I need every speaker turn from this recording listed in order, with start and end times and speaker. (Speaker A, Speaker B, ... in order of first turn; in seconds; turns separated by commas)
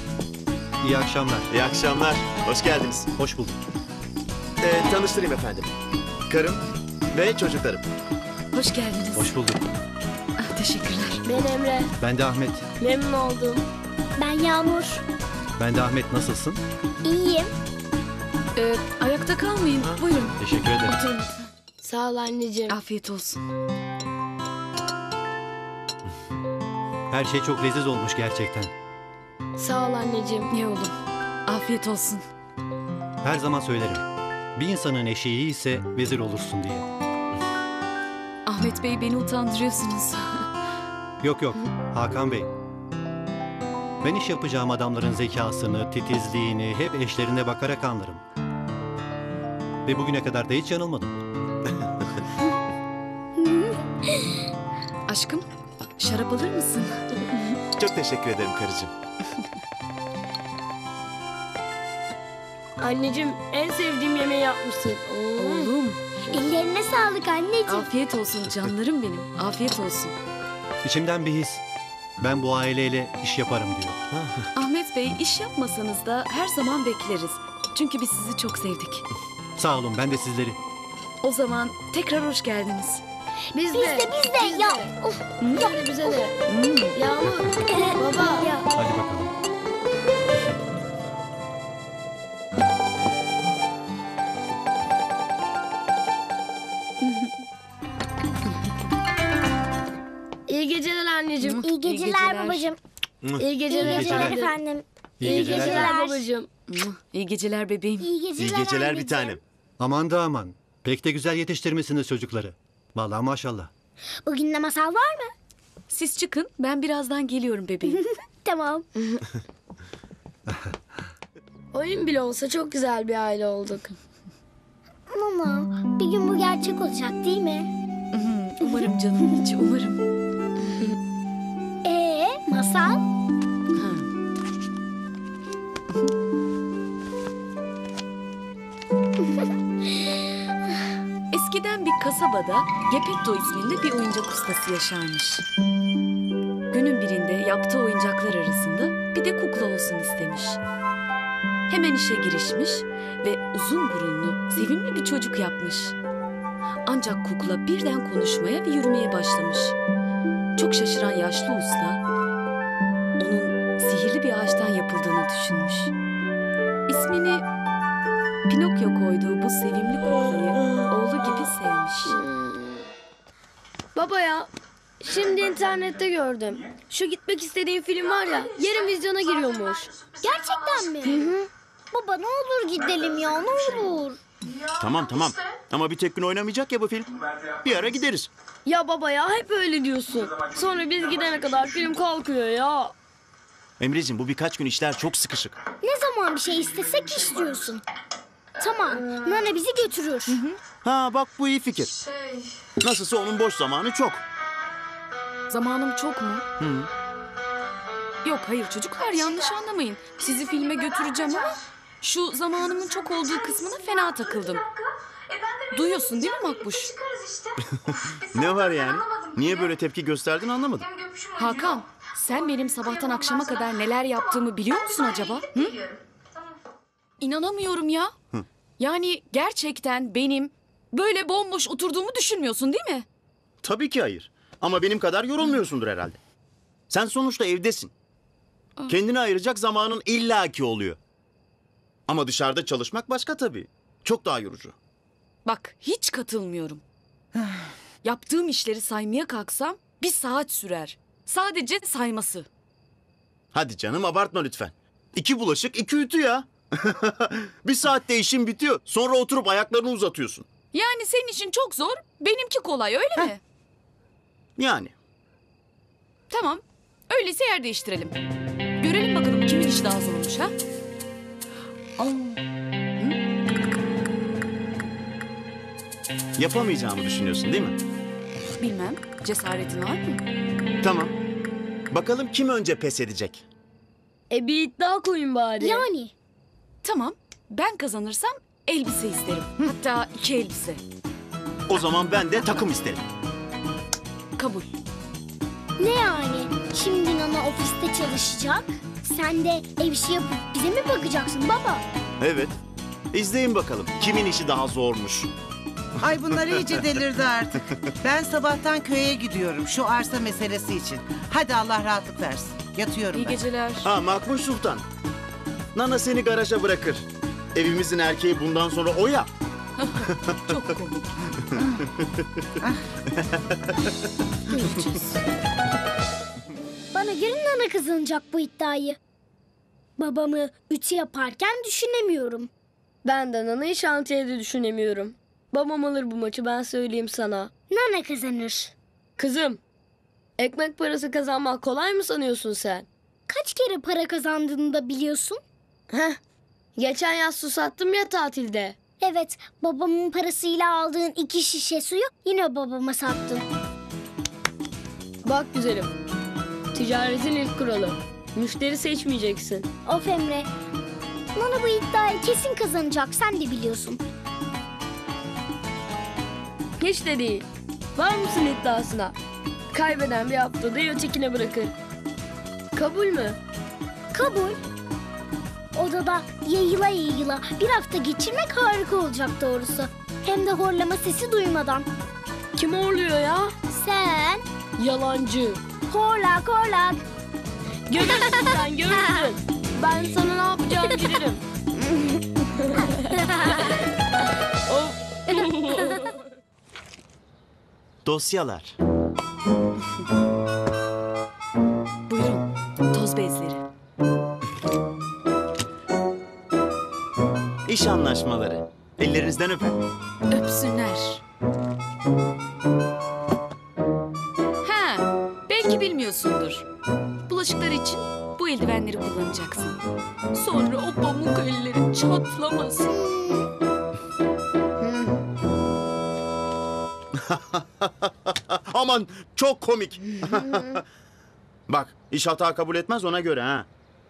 Speaker A: 0.8-1.5, Speaker B: 1.5-3.1, Speaker A: 3.2-3.5, Speaker B: 4.6-5.7, Speaker B: 6.3-7.8, Speaker C: 8.5-9.3, Speaker A: 9.1-9.6, Speaker C: 10.4-11.2, Speaker D: 11.2-11.9, Speaker A: 12.0-12.7, Speaker D: 12.8-13.6, Speaker E: 14.2-15.0, Speaker A: 15.6-16.6, Speaker E: 17.0-17.5, Speaker C: 18.6-21.3, Speaker A: 20.4-21.0, Speaker D: 21.8-22.8, Speaker C: 22.7-23.4, Speaker A: 27.1-28.7, Speaker D: 29.6-30.5, Speaker C: 30.5-32.2, Speaker A: 33.2-34.0, Speaker A: 34.5-36.9, Speaker C: 38.5-40.5, Speaker A: 41.2-42.5, Speaker A: 44.0-48.2, Speaker A: 49.8-51.2, Speaker C: 55.1-55.5, Speaker C: 56.0-57.0, Speaker B: 57.8-58.9, Speaker D: 62.8-65.7, Speaker C: 65.4-66.0, Speaker E: 66.3-67.9, Speaker C: 67.7-70.1, Speaker A: 70.8-71.6, Speaker A: 72.2-74.0, Speaker B: 74.1-74.5, Speaker C: 74.5-79.0, Speaker A: 79.6-80.6, Speaker C: 81.2-83.0, Speaker D: 83.5-84.9, Speaker E: 83.7-86.3, Speaker C: 85.4-85.7, Speaker D: 85.4-86.3, Speaker C: 86.5-87.0, Speaker D: 87.0-88.5, Speaker E: 87.7-88.6, Speaker A: 88.7-89.3, Speaker D: 100.5-101.6, Speaker C: 101.4-102.6, Speaker E: 101.6-102.8, Speaker D: 103.4-104.5, Speaker E: 103.7-106.2, Speaker A: 103.7-104.3, Speaker A: 105.2-105.9, Speaker D: 105.2-106.5, Speaker C: 106.7-108.1, Speaker E: 108.0-109.4, Speaker B: 108.4-109.4, Speaker A: 109.8-113.7, Speaker E: 114.2-115.3, Speaker C: 115.9-118.0, Speaker E: 118.0-118.8, Speaker D: 121.7-123.9, Speaker E: 125.1-127.7, Speaker C: 128.1-130.0, Speaker E: 131.8-133.0, Speaker C: 133.7-134.1, Speaker C: 141.3-145.4, Speaker C: 146.7-150.6, Speaker C: 151.7-155.9, Speaker C: 156.9-159.8, Speaker C: 160.6-162.0, Speaker C: 163.2-165.9, Speaker C: 166.9-167.4, Speaker C: 168.5-172.2, Speaker D: 172.1-172.8, Speaker D: 173.9-174.5, Speaker D: 175.0-179.9, Speaker E: 180.2-184.2, Speaker B: 184.8-188.3, Speaker D: 188.7-192.9, Speaker B: 193.8-195.6, Speaker E: 195.8-197.8, Speaker E: 198.6-200.4, Speaker B: 200.8-201.9, Speaker B: 202.8-204.2, Speaker C: 205.5-206.4, Speaker B: 206.6-206.9, Speaker C: 208.2-214.6, Speaker C: 215.7-216.9, Speaker B: 218.2-220.9, Speaker C: 221.3-225.8, Speaker C: 227.2-228.1, Speaker C: 228.8-233.1, Speaker B: 233.6-236.2, Speaker B: 236.9-237.9, Speaker B: 238.9-241.0, Speaker B: 242.1-244.7, Speaker C: 245.4-246.8, Speaker C: 248.0-252.5, Speaker B: 253.5-260.5, Speaker C: 260.7-263.4, Speaker B: 264.6-264.9, Speaker C: 266.3-268.2, Speaker C: 268.8-270.5, Speaker B: 276.4-277.8, Speaker C: 278.6-280.2, Speaker B: 280.8-281.1, Speaker B: 281.9-283.4, Speaker D: 284.3-285.8, Speaker E: 285.6-286.1, Speaker C: 286.8-290.8, Speaker B: 291.7-293.0, Speaker C: 294.4-294.7, Speaker E: 295.8-301.8, Speaker B: 302.2-302.6, Speaker B: 303.1-305.3, Speaker F: 306.0-313.4, Speaker B: 306.5-306.8, Speaker C: 313.1-313.9, Speaker B: 313.8-314.8, Speaker B: 315.7-319.3, Speaker C: 319.8-321.2, Speaker B: 320.0-320.4, Speaker B: 321.5-322.0, Speaker B: 323.1-323.7, Speaker C: 324.5-325.2, Speaker E: 326.9-329.0, Speaker E: 330.0-332.5, Speaker D: 333.0-337.5, Speaker E: 337.7-338.7, Speaker D: 339.2-339.6, Speaker D: 340.4-342.9, Speaker E: 343.3-345.4, Speaker D: 345.9-346.2, Speaker D: 346.8-348.8, Speaker E: 349.0-353.4, Speaker D: 355.2-355.9, Speaker D: 356.7-359.7, Speaker E: 359.8-360.5, Speaker E: 361.3-364.0, Speaker D: 366.8-369.1, Speaker D: 369.7-371.7, Speaker D: 372.7-373.4, Speaker E: 374.1-374.6, Speaker E: 375.7-381.9, Speaker D: 382.6-383.6, Speaker E: 383.7-384.4, Speaker D: 384.8-385.6, Speaker E: 385.9-387.0, Speaker D: 387.9-391.4, Speaker D: 394.7-396.0, Speaker B: 398.0-398.8, Speaker C: 402.1-403.6, Speaker B: 407.7-409.8, Speaker C: 410.3-411.2, Speaker C: 414.6-416.6, Speaker C: 417.3-419.8, Speaker C: 420.3-422.9, Speaker E: 422.9-423.4, Speaker B: 427.1-430.8, Speaker B: 431.7-433.7